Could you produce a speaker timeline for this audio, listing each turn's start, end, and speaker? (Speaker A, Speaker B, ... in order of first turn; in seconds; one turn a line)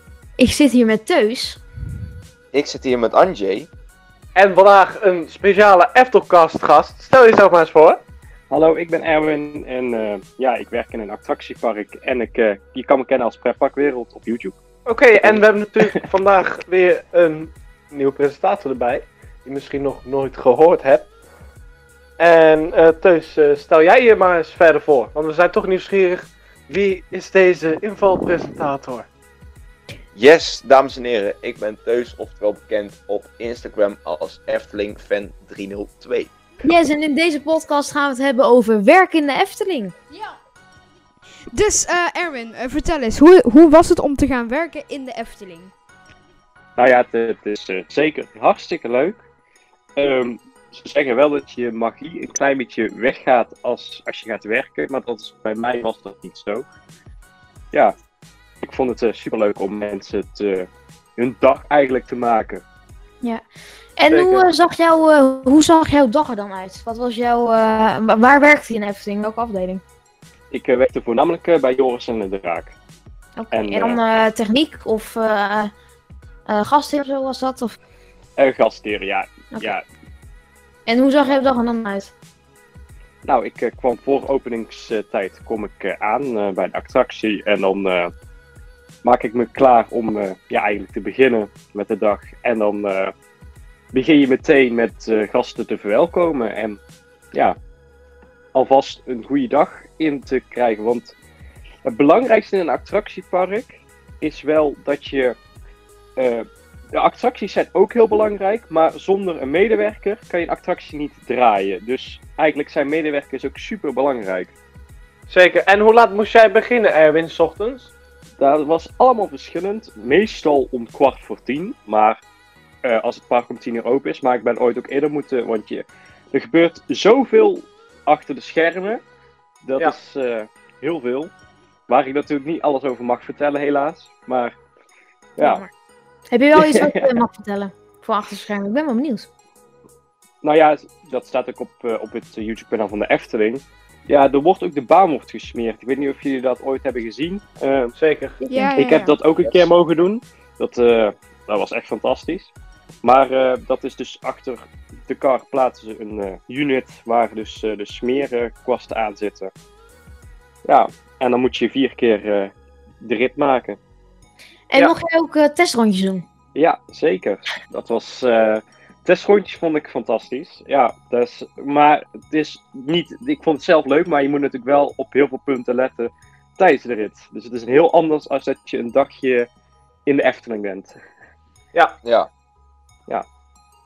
Speaker A: 0.4-1.6
Speaker B: 2.5-3.7
Speaker C: 4.3-8.0
Speaker D: 8.5-14.6
Speaker C: 14.9-21.1
Speaker C: 22.2-29.1
Speaker B: 30.1-36.3
Speaker A: 36.6-39.9
Speaker E: 40.1-40.4
Speaker E: 41.5-45.7
Speaker D: 46.8-49.2
Speaker D: 50.0-56.6
Speaker D: 58.6-62.6
Speaker A: 64.0-69.8
Speaker D: 64.1-64.5
Speaker D: 70.5-72.8
Speaker A: 73.4-75.7
Speaker D: 73.5-74.0
Speaker A: 76.5-77.8
Speaker D: 78.4-79.8
Speaker A: 80.9-82.1
Speaker D: 83.2-88.1
Speaker D: 89.0-93.1
Speaker D: 93.9-96.8
Speaker D: 98.5-101.2
Speaker D: 101.8-105.4
Speaker D: 106.2-114.5
Speaker C: 115.3-117.9
Speaker D: 118.4-122.2
Speaker D: 122.8-129.0
Speaker D: 129.6-131.3
Speaker D: 131.9-134.5
Speaker D: 135.4-135.6
Speaker A: 135.4-135.7
Speaker A: 136.3-139.3
Speaker D: 136.5-137.1
Speaker D: 140.4-147.9
Speaker C: 148.0-148.4
Speaker A: 148.4-148.8
Speaker E: 148.5-149.1
Speaker D: 148.8-152.5
Speaker D: 153.0-159.5
Speaker D: 160.7-163.8
Speaker A: 164.7-166.2
Speaker D: 166.6-179.5
Speaker D: 180.1-180.9
Speaker B: 182.0-182.3